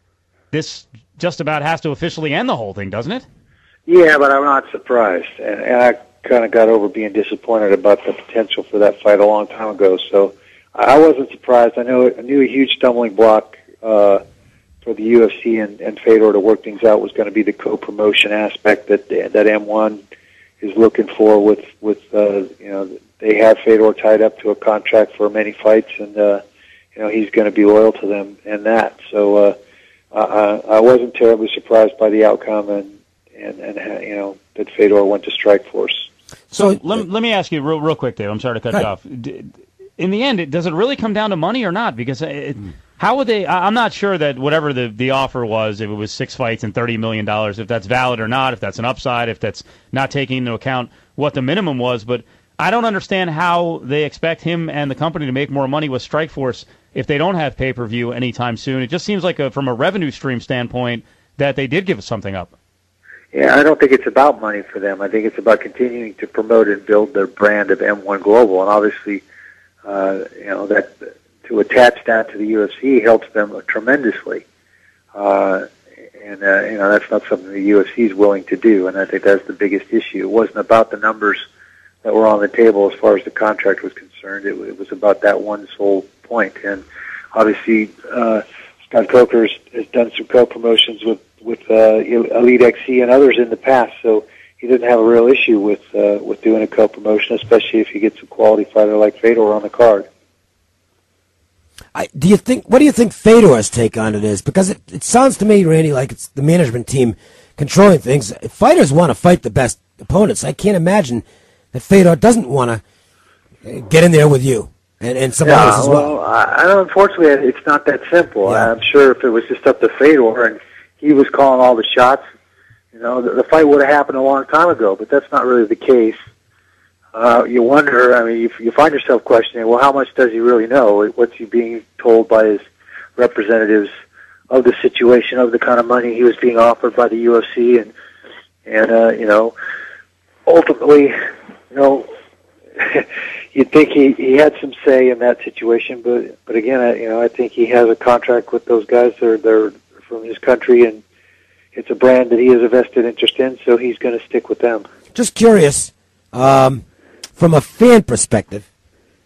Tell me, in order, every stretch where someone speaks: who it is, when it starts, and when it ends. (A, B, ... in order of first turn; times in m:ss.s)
0:00.5-0:03.2 A
0:03.9-0:14.2 B
0:14.8-0:20.0 B
0:20.6-0:26.4 B
0:27.0-0:29.6 B
0:30.1-0:36.1 B
0:36.5-0:36.8 C
0:36.5-1:02.5 A
1:03.3-1:09.2 B
1:09.8-1:14.4 B
1:15.2-1:15.7 B
1:16.2-1:21.4 B
1:22.0-1:40.1 B
1:41.9-1:52.8 C
1:53.6-1:56.1 C
1:55.4-2:02.2 B
2:02.9-2:06.2 B
2:07.1-2:12.6 B
2:13.2-2:13.9 B
2:14.5-2:17.9 B
2:18.7-2:19.5 B
2:20.5-2:21.1 B
2:21.7-2:22.1 B
2:22.8-2:31.0 B
2:31.7-2:34.9 B
2:35.1-2:36.8 C
2:37.4-2:38.7 C